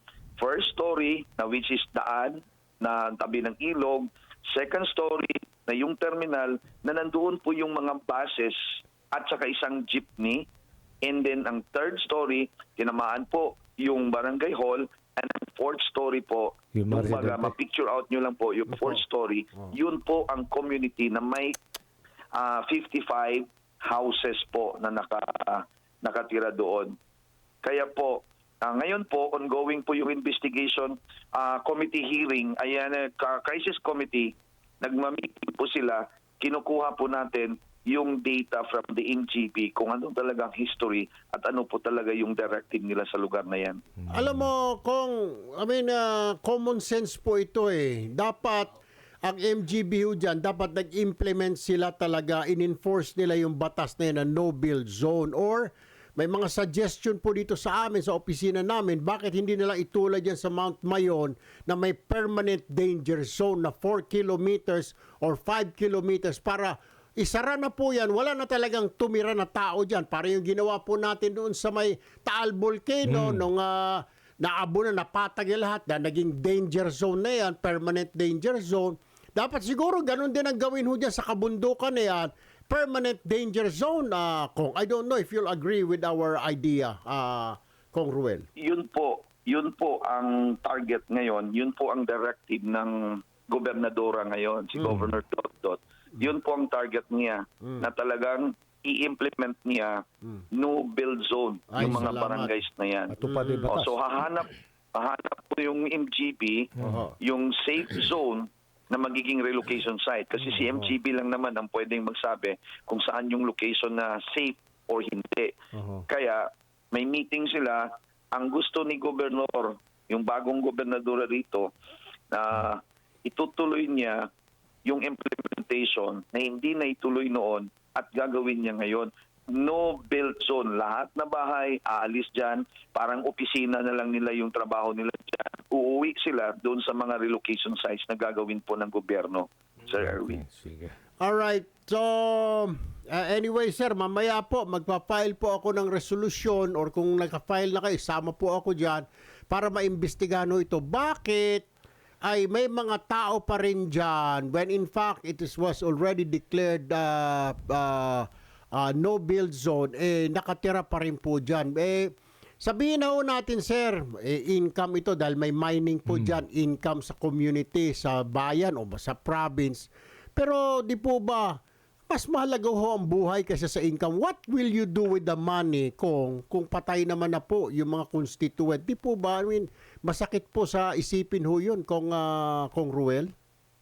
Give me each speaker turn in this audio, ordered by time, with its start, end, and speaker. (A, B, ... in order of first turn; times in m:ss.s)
0:00.4-0:08.6 A
0:09.1-0:10.5 A
0:11.0-0:21.6 A
0:16.8-0:17.5 B
0:18.7-0:19.0 C
0:22.4-0:27.0 A
0:27.6-0:43.8 A
0:44.0-0:44.4 B
0:44.1-0:48.7 C
0:49.2-1:28.4 C
1:13.0-1:13.4 B
1:28.6-1:55.5 A
1:34.8-1:35.0 C
1:37.6-1:37.9 C
1:41.7-1:42.5 C
1:41.8-1:42.1 B
1:43.1-1:44.0 B
1:43.2-1:43.7 C
1:46.8-1:47.0 B
1:46.8-1:47.1 C
1:55.7-1:56.0 C
1:56.1-2:01.7 A
2:02.3-2:04.3 A
2:04.9-2:20.4 A
2:20.0-2:21.0 B
2:21.2-2:31.7 C
2:32.2-2:51.6 C
2:46.1-2:46.3 B
2:52.1-3:03.3 C